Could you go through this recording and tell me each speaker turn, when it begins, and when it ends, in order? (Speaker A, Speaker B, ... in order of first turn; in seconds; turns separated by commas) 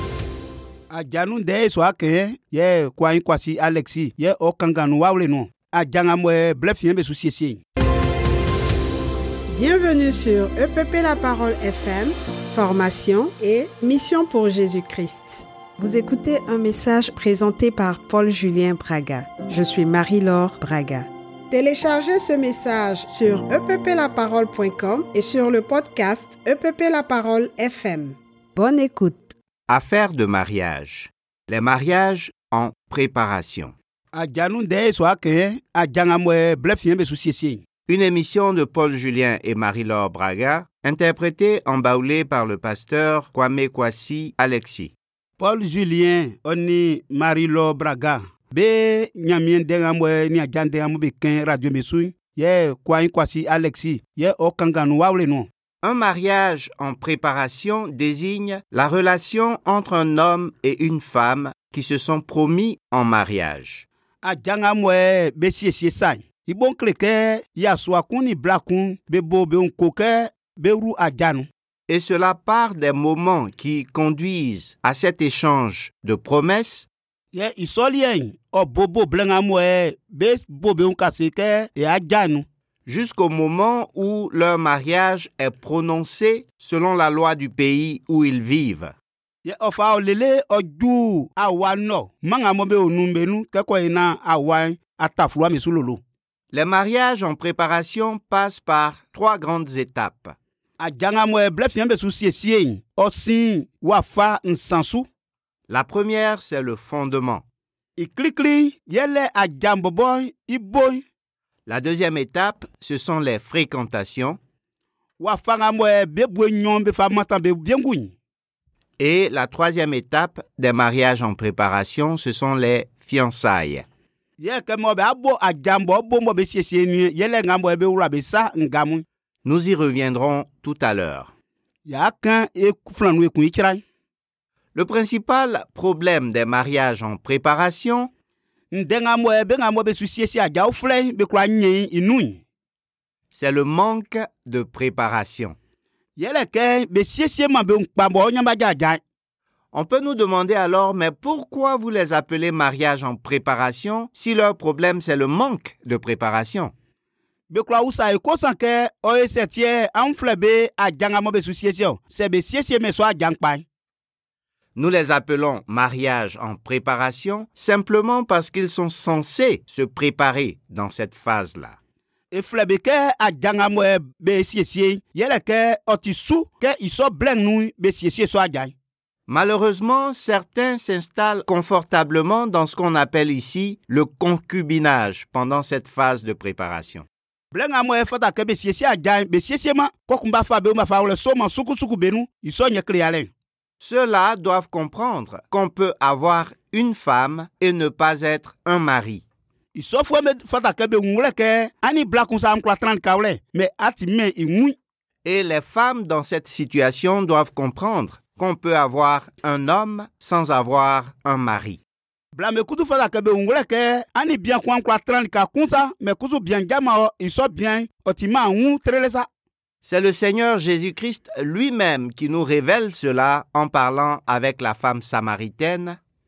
Speaker A: 0.9-7.6, Speaker B: 9.5-29.3, Speaker C: 29.7-33.7, Speaker A: 34.1-37.6, Speaker C: 37.9-44.9, Speaker A: 45.4-55.5, Speaker C: 55.8-63.8, Speaker A: 64.2-71.5, Speaker C: 71.9-76.9, Speaker A: 77.3-82.5, Speaker C: 82.8-88.9, Speaker A: 89.4-96.0, Speaker C: 96.5-100.3, Speaker A: 100.8-105.1, Speaker C: 105.7-107.4, Speaker A: 108.0-111.0, Speaker C: 111.7-114.4, Speaker A: 115.2-118.1, Speaker C: 119.0-123.8, Speaker A: 124.4-129.0, Speaker C: 129.4-131.3, Speaker A: 131.8-133.8, Speaker C: 134.7-138.1, Speaker A: 138.7-142.4, Speaker C: 143.3-145.6, Speaker A: 146.2-149.0, Speaker C: 149.7-156.7, Speaker A: 157.5-163.6, Speaker C: 164.8-171.8, Speaker A: 172.3-178.7, Speaker C: 179.3-187.1, Speaker A: 187.5-193.3, Speaker C: 193.8-199.2, Speaker A: 199.7-204.7, Speaker C: 205.2-211.8, Speaker A: 212.3-219.3, Speaker C: 219.8-226.0